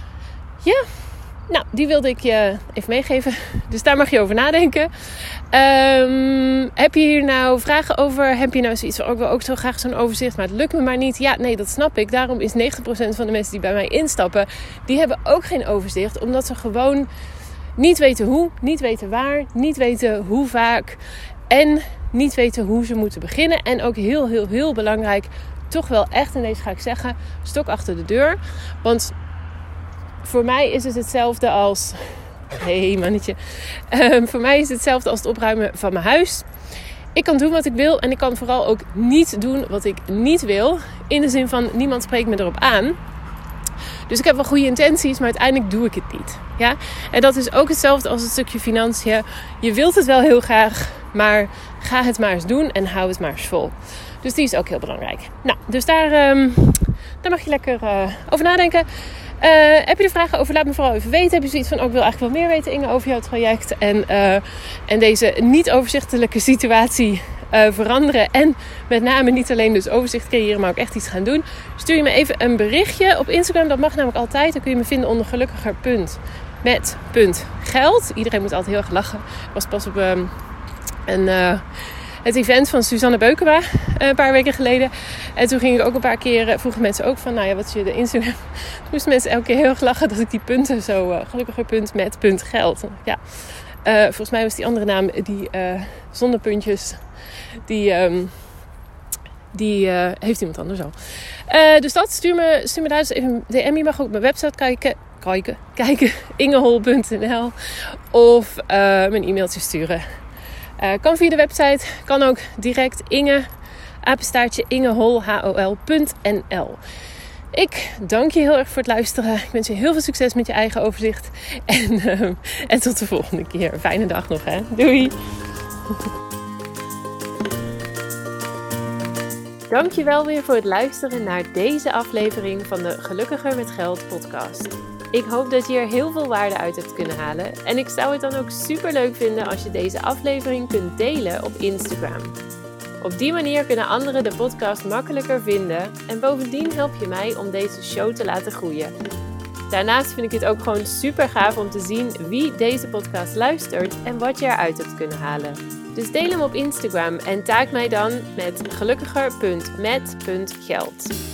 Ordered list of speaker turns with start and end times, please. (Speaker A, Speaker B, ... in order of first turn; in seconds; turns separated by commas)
Speaker A: 0.6-17.1, Speaker A: 17.8-29.1, Speaker A: 30.2-36.5, Speaker A: 37.1-43.0, Speaker A: 44.1-80.3, Speaker A: 81.0-98.5, Speaker A: 99.5-110.1, Speaker A: 110.8-113.5, Speaker A: 114.0-116.8, Speaker A: 117.5-125.2, Speaker A: 129.7-142.4, Speaker A: 143.0-148.9, Speaker A: 149.7-161.1